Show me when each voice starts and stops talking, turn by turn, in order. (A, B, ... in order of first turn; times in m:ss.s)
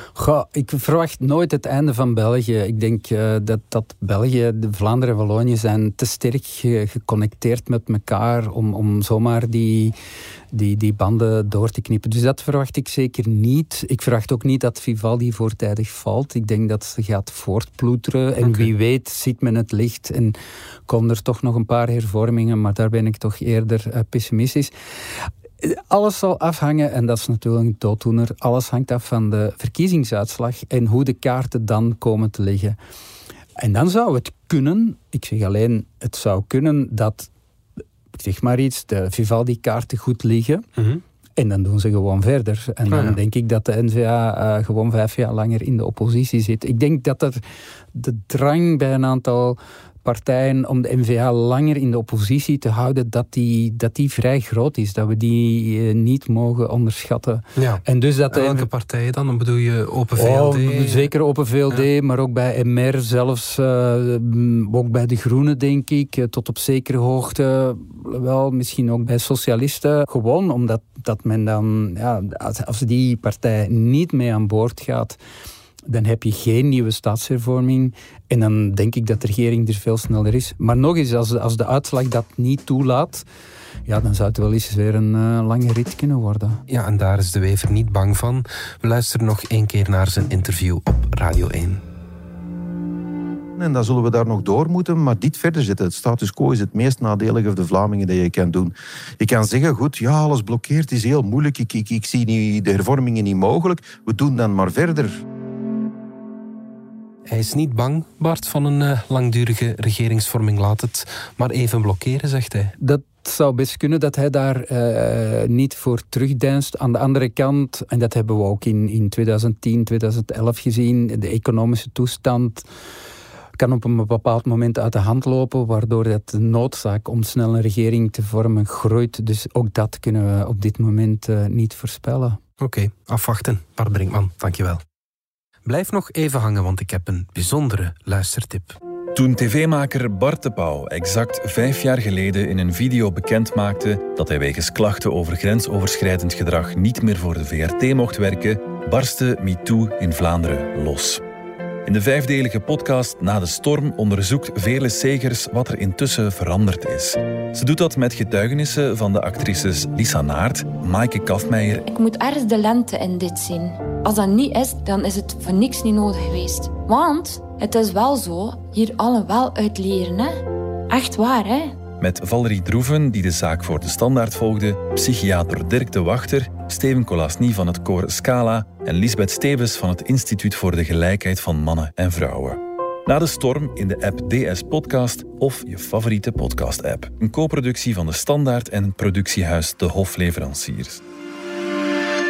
0:00.2-0:09.9 A
0:10.5-0:20.4 A
0:18.4-0:18.7 B
0:20.9-0:24.7 A
0:25.2-0:32.8 A
0:33.6-0:37.3 A
0:38.1-0:40.6 A
0:40.8-0:41.0 B
0:41.4-0:47.4 A
0:42.9-0:43.2 B
0:47.9-0:58.7 A
0:57.6-1:01.1 B
1:00.2-1:15.2 A
1:15.9-1:23.2 A
1:23.8-1:26.6 A
1:26.7-1:31.8 B
1:33.6-1:45.2 C
1:47.3-1:52.7 B
1:52.8-2:02.6 A
2:03.6-2:12.4 A
2:12.6-2:14.8 B
2:15.6-2:18.8 B
2:19.1-2:31.2 D
2:31.8-2:41.8 D
2:41.8-2:51.8 E
2:52.0-3:11.0 D